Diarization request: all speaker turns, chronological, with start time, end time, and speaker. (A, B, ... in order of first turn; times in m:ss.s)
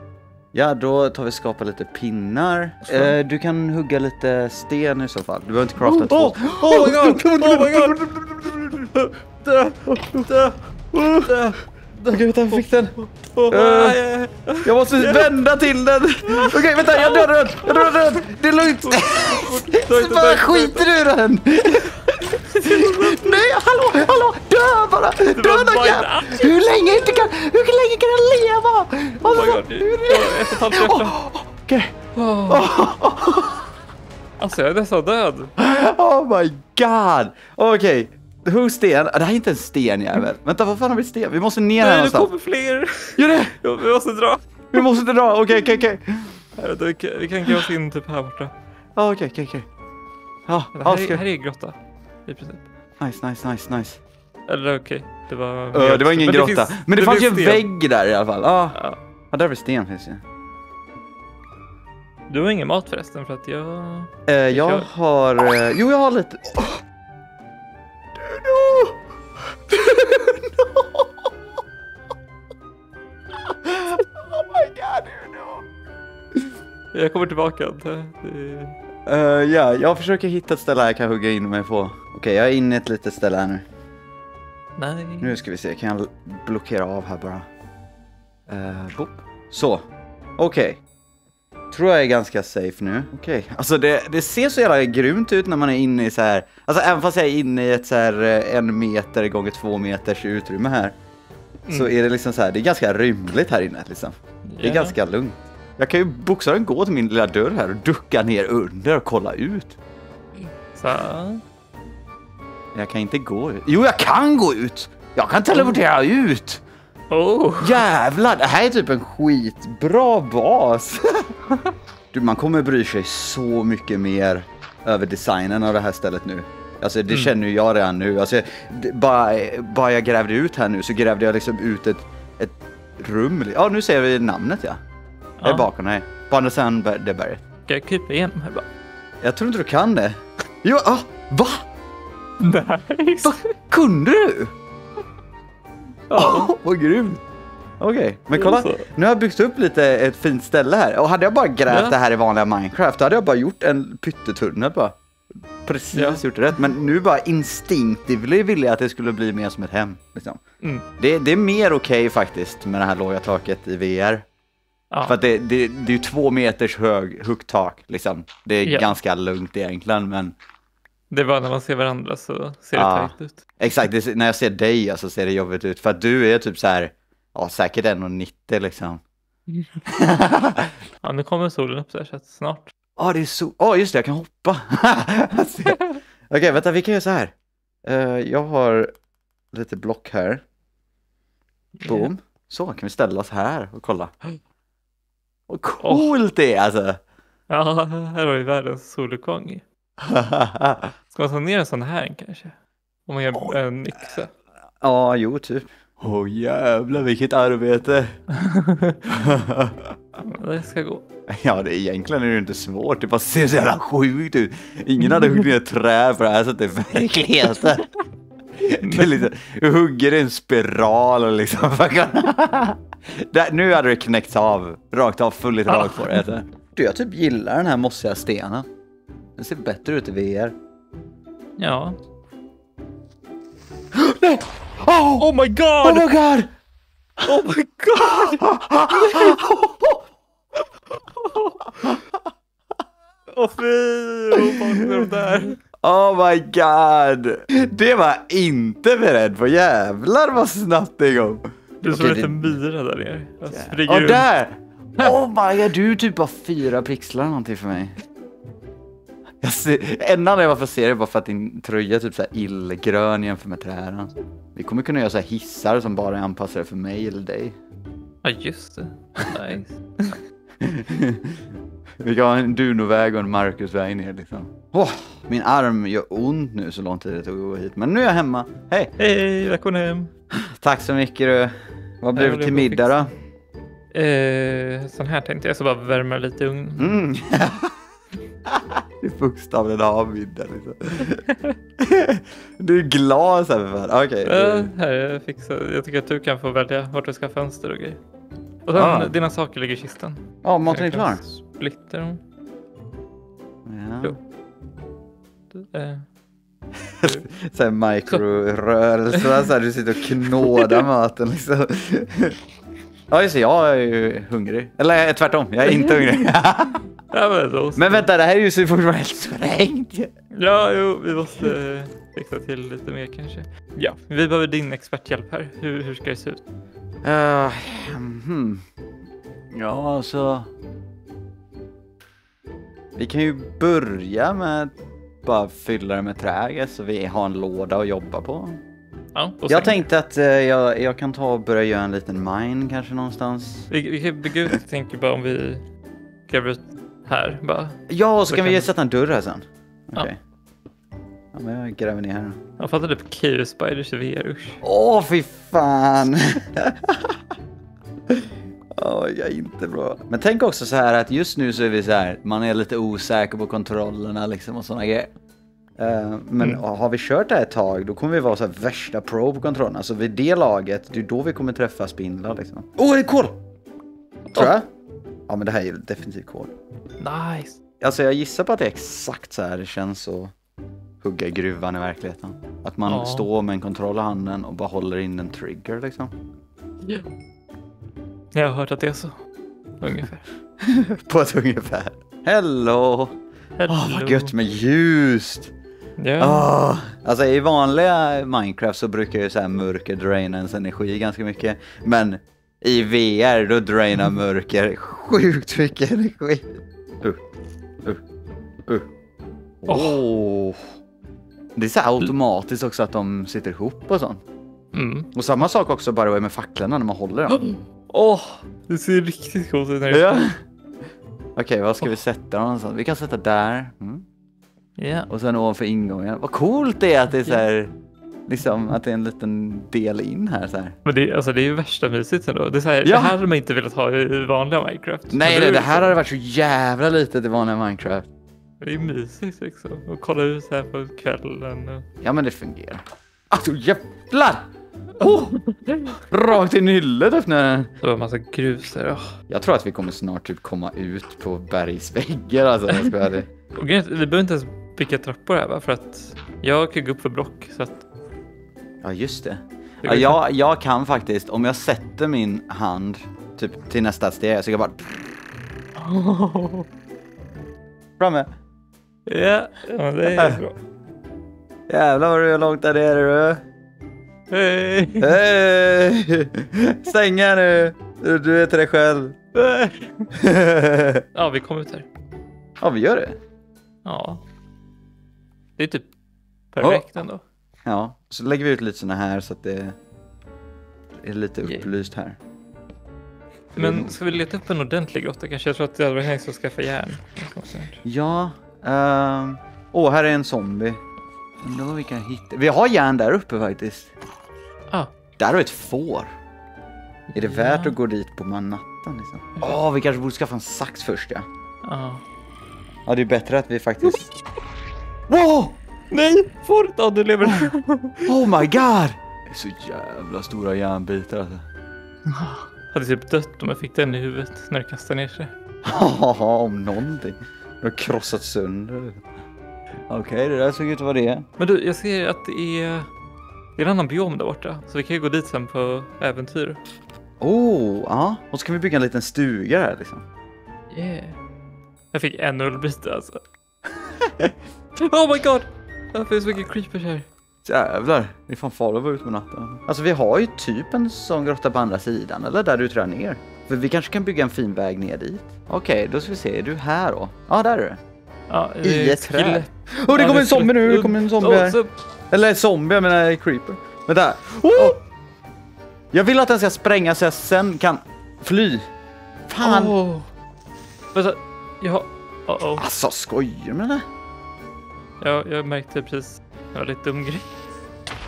0:00.5-0:08.1 A
0:05.8-0:15.4 B
0:09.8-0:10.3 A
0:10.9-0:11.3 A
0:12.1-0:12.9 A
0:13.5-0:14.0 A
0:14.6-0:32.0 A
0:16.2-0:18.2 B
0:18.7-0:20.9 B
0:22.3-0:23.5 B
0:25.3-0:26.6 B
0:29.2-0:31.2 B
0:32.1-0:32.7 B
0:32.5-0:33.6 A
0:34.4-0:35.5 B
0:35.6-0:42.3 A
0:41.8-0:44.9 B
0:43.2-0:43.6 A
0:44.7-0:46.4 A
0:46.6-0:48.5 B
0:49.0-0:49.7 A
0:50.5-0:51.2 A
0:50.7-0:52.6 B
0:53.0-0:54.0 A
0:54.5-0:57.7 B
0:55.7-0:58.8 A
0:59.3-1:00.2 A
1:02.3-1:04.9 B
1:04.3-1:06.8 A
1:08.2-1:09.0 A
1:09.7-1:11.1 A
1:13.5-1:15.6 A
1:16.9-1:18.7 B
1:19.0-1:23.6 A
1:24.8-1:25.4 B
1:25.2-1:27.5 A
1:28.5-1:29.9 A
1:30.4-1:30.8 A
1:31.7-1:41.0 A
1:41.7-1:41.9 B
1:41.7-1:49.8 A
1:44.5-1:44.9 B
1:50.7-1:51.4 B
1:52.7-1:56.6 A
1:57.1-1:57.8 B
1:57.6-2:01.3 A
2:02.1-2:14.8 A
2:15.4-2:15.7 B
2:15.4-2:17.4 A
2:17.7-2:18.6 B
2:19.2-2:21.6 A
2:22.4-2:23.4 B
2:23.2-2:24.5 A
2:26.1-2:26.5 B
2:26.1-2:27.2 A
2:27.8-2:35.0 A
2:28.3-2:28.8 B
2:31.7-2:32.0 B
2:35.6-2:40.4 A
2:35.9-2:36.2 B
2:41.0-2:44.2 A
2:44.9-2:45.2 B
2:45.0-2:50.3 A
2:48.6-2:49.0 B
2:51.1-2:53.4 B
2:52.7-2:59.0 A
2:59.9-3:00.7 A
3:01.0-3:02.7 B
3:03.0-3:07.3 A
3:05.7-3:06.0 B
3:07.8-3:08.9 A
3:09.5-3:10.4 A
3:11.8-3:12.1 B
3:11.9-3:14.4 A
3:15.5-3:17.0 A
3:15.8-3:16.1 B
3:17.5-3:19.6 B
3:20.0-3:20.9 A
3:21.1-3:24.3 B
3:24.8-3:28.2 A
3:28.3-3:29.0 B
3:29.0-3:29.9 A
3:30.2-3:31.0 B
3:31.3-3:37.9 A
3:35.1-3:35.4 B
3:38.6-3:48.7 A
3:38.8-3:39.3 B
3:45.7-3:46.3 B
3:49.4-3:50.5 A
3:51.6-3:52.0 B
3:53.9-3:55.3 A
3:55.2-3:56.1 B
3:55.8-3:56.5 A
3:57.2-3:59.5 B
3:58.1-4:00.0 A
4:01.1-4:01.6 B
4:03.3-4:05.6 B
4:04.4-4:05.1 A
4:05.8-4:12.6 A
4:11.8-4:14.3 B
4:13.5-4:17.9 A
4:19.4-4:27.6 A
4:28.2-4:30.2 B
4:30.6-4:31.4 A
4:32.0-4:38.9 A
4:39.0-4:40.1 B
4:40.4-4:43.1 A
4:42.1-4:43.0 B
4:43.9-4:46.9 B
4:46.8-4:47.7 A
4:48.5-4:51.2 A
4:51.1-4:51.6 B
4:51.8-4:54.7 A
4:54.2-4:58.0 B
4:58.6-5:02.2 B
4:58.7-4:59.2 A
5:00.4-5:01.2 A
5:03.6-5:04.2 A
5:05.5-5:06.0 B
5:06.8-5:12.4 A
5:09.1-5:09.4 B
5:10.2-5:10.8 B
5:13.1-5:16.8 A
5:15.6-5:16.1 B
5:17.1-5:18.1 B
5:17.8-5:20.1 A
5:20.3-5:26.4 B
5:27.0-5:28.6 A
5:29.5-5:30.5 A
5:33.0-5:38.6 A
5:39.1-5:39.8 B
5:39.5-5:43.7 A
5:43.7-5:45.6 B
5:46.3-5:48.7 B
5:47.9-5:50.2 A
5:51.3-5:52.4 A
5:52.6-5:54.6 B
5:54.6-5:57.2 A
5:58.8-6:05.1 A
6:05.8-6:13.4 A
6:14.3-6:14.7 A
6:15.3-6:16.5 A
6:17.0-6:17.6 B
6:17.8-6:20.3 A
6:21.0-6:26.1 A
6:22.9-6:23.3 B
6:28.3-6:29.2 B
6:29.8-6:30.2 B
6:30.6-6:33.2 A
6:33.6-6:34.3 B
6:33.7-6:35.5 A
6:36.0-6:36.5 B
6:36.2-6:47.2 A
6:49.6-6:50.7 A
6:49.7-6:50.0 B
6:51.6-6:54.2 A
6:54.7-6:55.1 B
6:55.1-6:57.6 A
6:57.3-7:00.3 B
6:59.9-7:00.4 A
7:01.4-7:04.0 A
7:04.8-7:05.1 B
7:05.1-7:07.7 A
7:08.3-7:10.8 A
7:10.8-7:16.0 B
7:12.8-7:13.1 A
7:15.1-7:18.0 A
7:18.6-7:21.8 B
7:22.0-7:24.4 A
7:25.0-7:25.4 A
7:25.0-7:26.0 B
7:25.9-7:27.7 A
7:27.8-7:29.1 B
7:29.3-7:33.3 A
7:32.7-7:33.0 B
7:33.5-7:37.8 B
7:38.8-7:44.9 A
7:39.8-7:40.2 B
7:45.8-7:46.7 B
7:48.0-7:48.3 A
7:49.0-7:50.6 B
7:50.1-7:50.4 A
7:51.7-7:53.4 A
7:54.3-7:55.2 B
7:55.0-7:59.6 A
7:59.4-7:59.9 B
8:00.1-8:01.0 A
8:01.1-8:01.9 B
8:02.6-8:03.2 A
8:03.8-8:04.2 B
8:05.6-8:05.9 B
8:06.5-8:07.2 B
8:06.6-8:06.8 A
8:07.6-8:09.8 A
8:11.0-8:12.2 A
8:13.5-8:17.8 B
8:13.6-8:13.9 A
8:17.8-8:20.8 A
8:21.4-8:23.9 A
8:25.2-8:26.1 A
8:27.1-8:27.8 B
8:27.1-8:31.2 A
8:31.6-8:32.0 B
8:32.8-8:34.1 A
8:35.1-8:35.5 A
8:35.9-8:38.2 B
8:38.0-8:41.4 A
8:42.1-8:45.3 B
8:45.6-8:49.0 A
8:49.9-8:51.2 A
8:51.4-8:52.9 B
8:53.6-8:56.6 B
8:57.2-9:00.0 A
9:00.7-9:01.2 B
9:01.9-9:03.2 B
9:04.8-9:07.0 B
9:07.4-9:17.8 A
9:18.3-9:21.7 B
9:18.6-9:21.6 A
9:22.1-9:24.8 A
9:25.9-9:28.6 A
9:29.3-9:29.8 A
9:29.4-9:30.1 B
9:30.9-9:32.6 B
9:32.6-9:33.8 A
9:35.0-9:37.4 B